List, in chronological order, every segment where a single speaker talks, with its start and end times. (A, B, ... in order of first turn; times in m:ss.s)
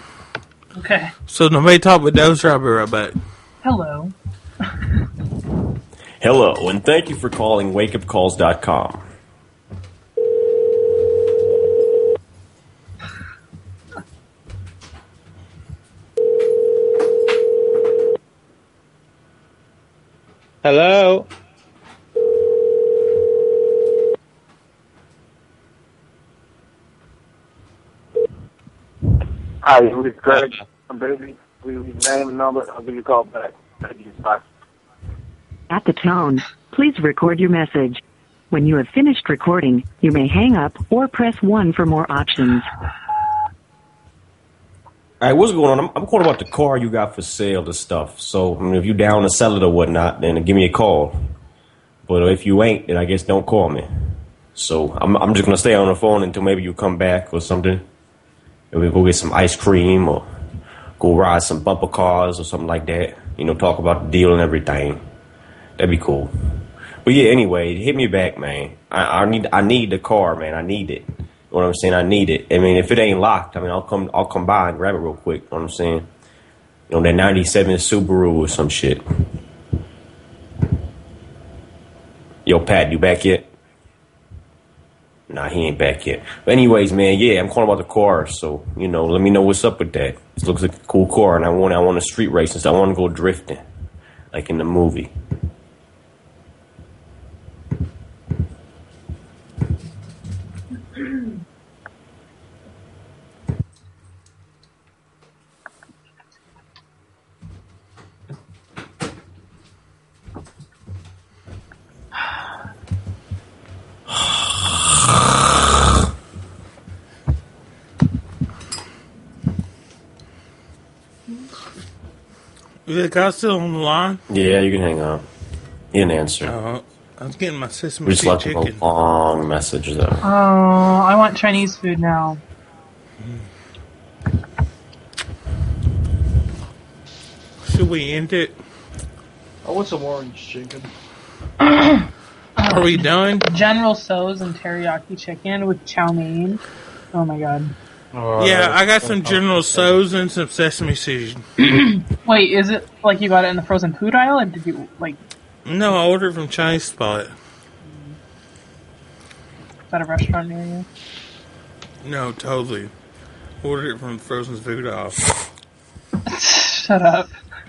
0:00.8-0:01.1 A
0:01.3-0:03.2 B
0:03.6-0:04.1 A
0:06.2-0:09.0 C
0:20.6-0:21.3 D
0:29.7-0:34.4 E
0:35.7-0:42.7 F
0:45.2-0:51.2 C
0:52.1-0:57.8 C
0:58.7-1:00.3 C
1:01.0-1:05.0 C
1:05.8-1:06.3 C
1:07.0-1:16.1 C
1:16.9-1:19.0 C
1:22.5-1:23.5 C
1:25.3-1:33.6 C
1:34.3-1:35.1 C
2:02.9-2:04.2 B
2:04.3-2:05.2 C
2:05.9-2:06.5 C
2:06.4-2:08.8 B
2:08.0-2:10.2 C
2:10.2-2:12.4 A
2:17.6-2:18.6 B
2:19.6-2:20.9 D
2:21.6-2:22.1 A
2:22.6-2:26.6 A
2:22.7-2:23.5 B
2:27.1-2:27.7 A
2:28.1-2:30.0 D
2:28.4-2:31.4 B
2:31.6-2:35.2 A
2:35.7-2:37.3 B
2:37.8-2:38.2 A
2:39.9-2:40.9 A
2:42.0-2:42.9 B
2:43.6-2:45.2 B
2:46.3-2:47.3 A